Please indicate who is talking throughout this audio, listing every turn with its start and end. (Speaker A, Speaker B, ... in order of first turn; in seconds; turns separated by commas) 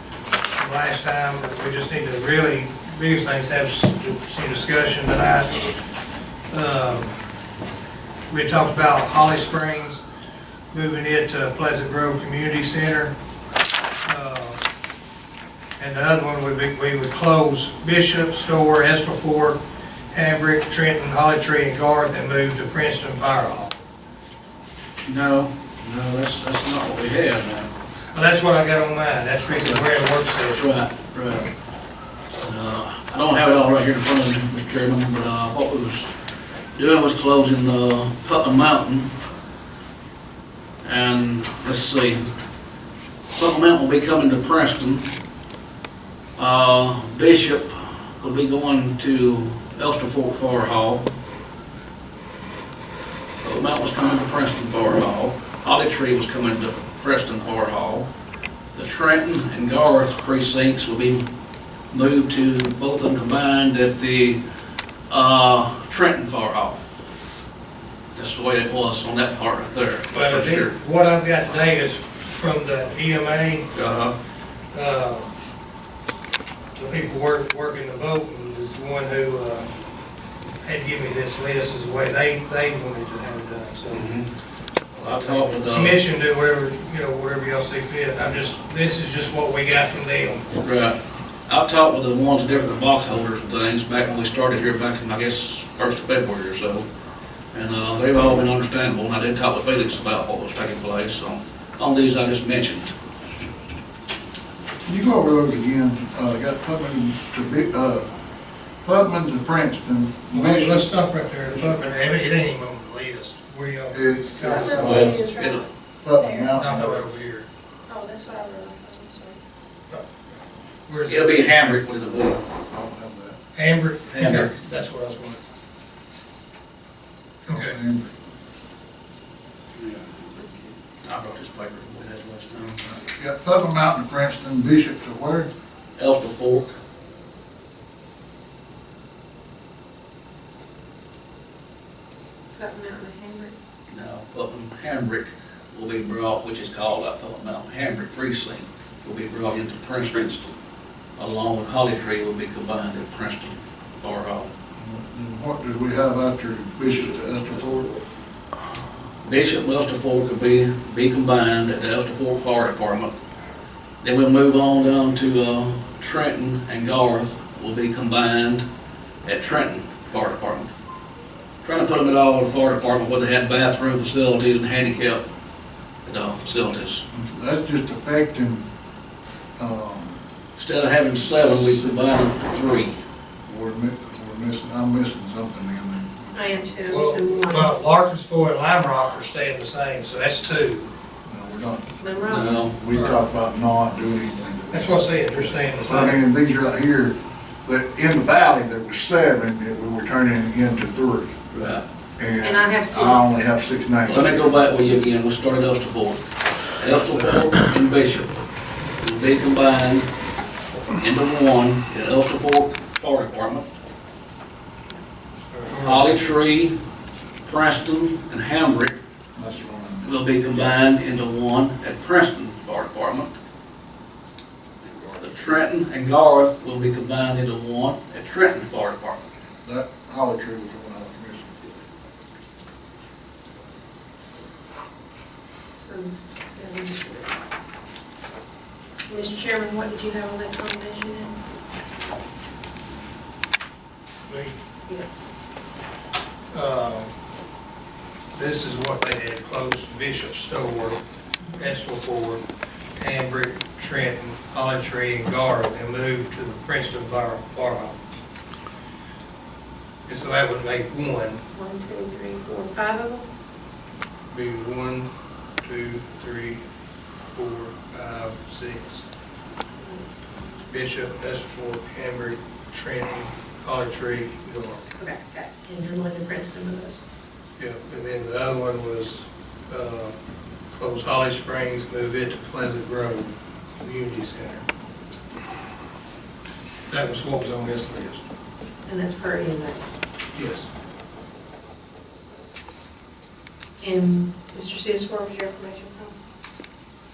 Speaker A: 0.5-5.6, Speaker A: 6.5-7.2, Speaker A: 8.3-10.0, Speaker A: 10.7-13.2, Speaker A: 14.0-14.6, Speaker A: 15.8-19.6, Speaker A: 20.1-23.7, Speaker B: 25.0-27.7, Speaker A: 28.1-30.6, Speaker B: 30.5-31.5, Speaker B: 32.4-36.1, Speaker B: 36.7-39.1, Speaker B: 40.8-42.2, Speaker B: 43.3-45.1, Speaker B: 46.4-51.1, Speaker B: 53.4-58.1, Speaker B: 58.7-61.2, Speaker B: 61.9-64.4, Speaker B: 65.1-66.8, Speaker B: 68.1-70.8, Speaker A: 70.1-73.7, Speaker B: 73.7-74.2, Speaker A: 74.7-75.3, Speaker A: 76.8-79.7, Speaker A: 80.6-84.2, Speaker B: 83.9-84.3, Speaker A: 85.0-90.5, Speaker B: 85.0-86.0, Speaker B: 90.6-96.9, Speaker B: 97.5-102.9, Speaker C: 104.8-108.1, Speaker C: 108.8-110.9, Speaker A: 110.3-115.1, Speaker C: 113.9-115.2, Speaker D: 114.4-116.5, Speaker B: 114.7-115.7, Speaker C: 116.0-117.0, Speaker A: 116.5-117.5, Speaker D: 117.9-119.4, Speaker A: 120.9-121.6, Speaker B: 121.1-122.4, Speaker C: 122.7-123.4, Speaker A: 123.5-125.4, Speaker B: 124.1-124.5, Speaker A: 127.5-127.8, Speaker C: 127.5-128.1, Speaker B: 129.8-130.5, Speaker B: 131.0-132.8, Speaker C: 132.9-135.5, Speaker B: 136.0-136.8, Speaker D: 142.5-143.5, Speaker B: 143.9-150.5, Speaker B: 151.2-154.5, Speaker C: 154.8-158.0, Speaker B: 159.2-163.1, Speaker B: 164.0-168.7, Speaker B: 169.2-170.7, Speaker B: 171.6-175.2, Speaker B: 176.0-177.0, Speaker C: 177.1-178.7, Speaker C: 179.6-180.2, Speaker B: 180.6-183.0, Speaker C: 183.5-186.7, Speaker D: 186.3-187.8, Speaker A: 186.9-190.9, Speaker C: 191.2-201.3, Speaker D: 192.0-192.7, Speaker B: 192.3-192.8, Speaker A: 192.9-193.2, Speaker A: 194.7-196.2, Speaker B: 201.5-201.8, Speaker C: 202.2-204.5, Speaker D: 202.4-203.5, Speaker B: 204.1-206.2, Speaker B: 206.8-208.3, Speaker B: 209.0-210.1, Speaker B: 210.9-213.7, Speaker A: 215.5-216.3, Speaker B: 215.7-216.8, Speaker B: 217.4-219.0, Speaker C: 219.3-220.2, Speaker B: 220.0-223.3, Speaker B: 224.8-229.2, Speaker C: 229.6-231.7, Speaker D: 235.7-237.3, Speaker D: 239.1-241.4, Speaker A: 244.3-244.6, Speaker D: 244.9-245.3, Speaker A: 246.5-247.1, Speaker A: 248.3-251.0, Speaker A: 251.6-252.4, Speaker A: 253.0-258.0, Speaker A: 260.1-261.4, Speaker D: 261.5-263.3, Speaker A: 264.3-265.1, Speaker A: 265.6-266.6, Speaker A: 267.3-269.0, Speaker D: 269.8-270.7, Speaker A: 270.7-274.9, Speaker D: 275.0-277.0, Speaker A: 277.6-280.1, Speaker A: 280.7-284.6, Speaker A: 286.9-288.2, Speaker D: 288.9-289.9, Speaker A: 290.3-290.7, Speaker D: 293.8-296.2